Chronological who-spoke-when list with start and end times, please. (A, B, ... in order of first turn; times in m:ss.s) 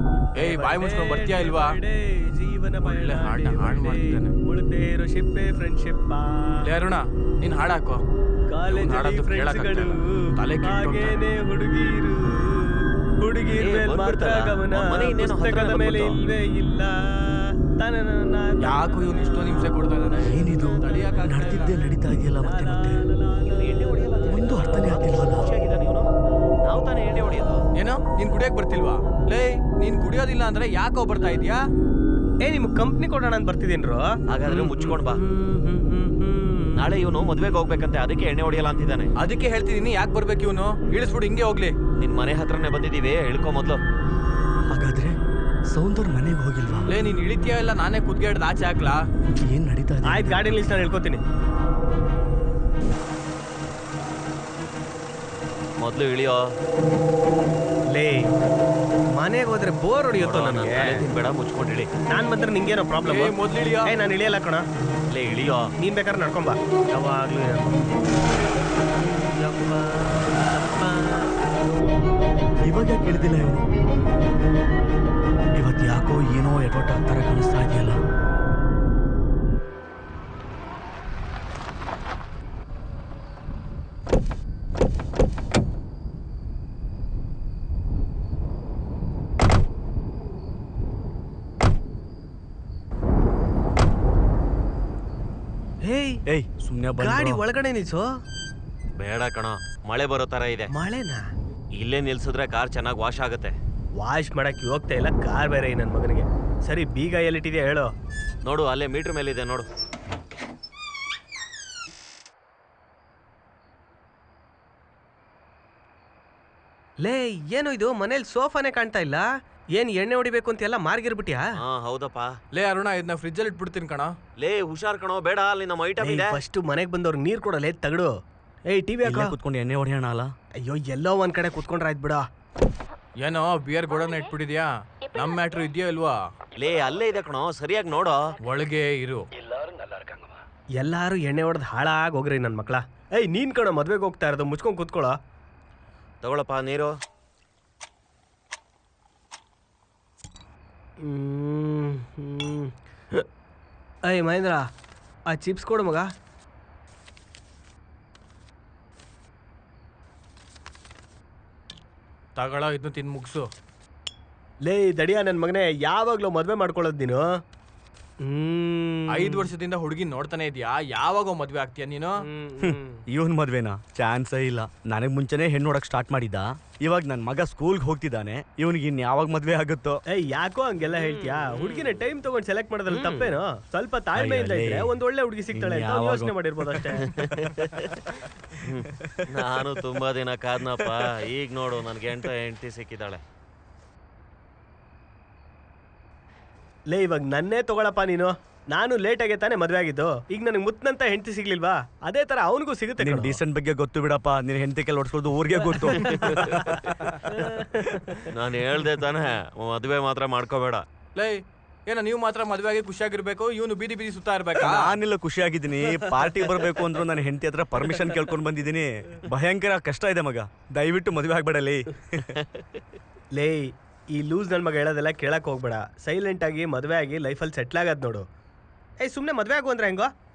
0:00.4-0:01.8 A
0:00.4-0:06.7 B
0:02.8-0:04.4 A
0:06.6-0:08.0 A
0:08.5-0:19.7 B
0:08.7-0:11.2 A
0:13.5-0:16.2 C
0:18.6-0:21.8 A
0:20.2-0:23.1 D
0:20.5-0:21.6 B
0:22.4-0:25.1 B
0:23.6-0:26.1 C
0:24.3-0:25.5 D
0:26.6-0:27.6 C
0:27.8-0:31.6 A
0:32.4-0:37.0 B
0:34.3-0:35.2 C
0:36.8-0:39.1 C
0:39.2-0:41.8 A
0:42.0-0:43.8 C
0:44.7-0:45.2 D
0:45.7-0:46.9 D
0:46.9-0:49.0 A
0:49.4-0:50.6 D
0:50.1-0:51.2 B
0:55.8-0:56.4 C
0:57.9-0:58.3 B
0:59.1-1:01.1 B
1:00.1-1:01.9 C
1:02.1-1:04.7 B
1:03.1-1:03.9 A
1:05.1-1:05.7 C
1:05.8-1:07.9 B
1:08.9-1:12.0 B
1:12.6-1:13.7 D
1:15.6-1:18.0 D
1:35.8-1:36.2 B
1:36.3-1:37.4 D
1:37.0-1:38.1 B
1:39.0-1:40.7 C
1:40.7-1:41.2 B
1:41.8-1:43.6 C
1:44.0-1:47.9 B
1:48.4-1:49.7 C
1:57.0-1:59.2 B
1:59.8-2:01.5 B
2:01.6-2:02.3 C
2:02.5-2:04.1 A
2:04.4-2:06.4 C
2:06.0-2:08.1 B
2:08.7-2:09.4 B
2:09.0-2:10.3 D
2:10.6-2:12.2 B
2:13.2-2:16.2 A
2:16.6-2:18.3 C
2:18.4-2:19.3 A
2:20.8-2:25.2 B
2:26.2-2:26.9 C
2:31.0-2:33.2 B
2:34.0-2:34.7 B
2:35.3-2:36.1 B
2:42.4-2:43.5 A
2:44.6-2:47.2 B
2:48.2-2:49.5 B
2:49.1-2:52.2 A
2:52.2-2:53.0 B
2:52.6-3:00.0 D
3:00.1-3:07.1 B
3:01.6-3:01.9 C
3:02.9-3:03.3 C
3:04.2-3:05.0 D
3:05.5-3:06.3 D
3:07.0-3:08.0 C
3:08.6-3:13.2 C
3:09.0-3:09.2 D
3:16.9-3:23.4 B
3:23.0-3:27.1 D
3:25.9-3:26.7 B
3:26.2-3:26.6 C
3:27.2-3:28.3 B
3:28.3-3:30.8 C
3:31.2-3:35.0 A
3:34.6-3:42.3 D
3:36.2-3:36.6 B
3:43.3-3:48.3 B
3:49.0-3:50.1 B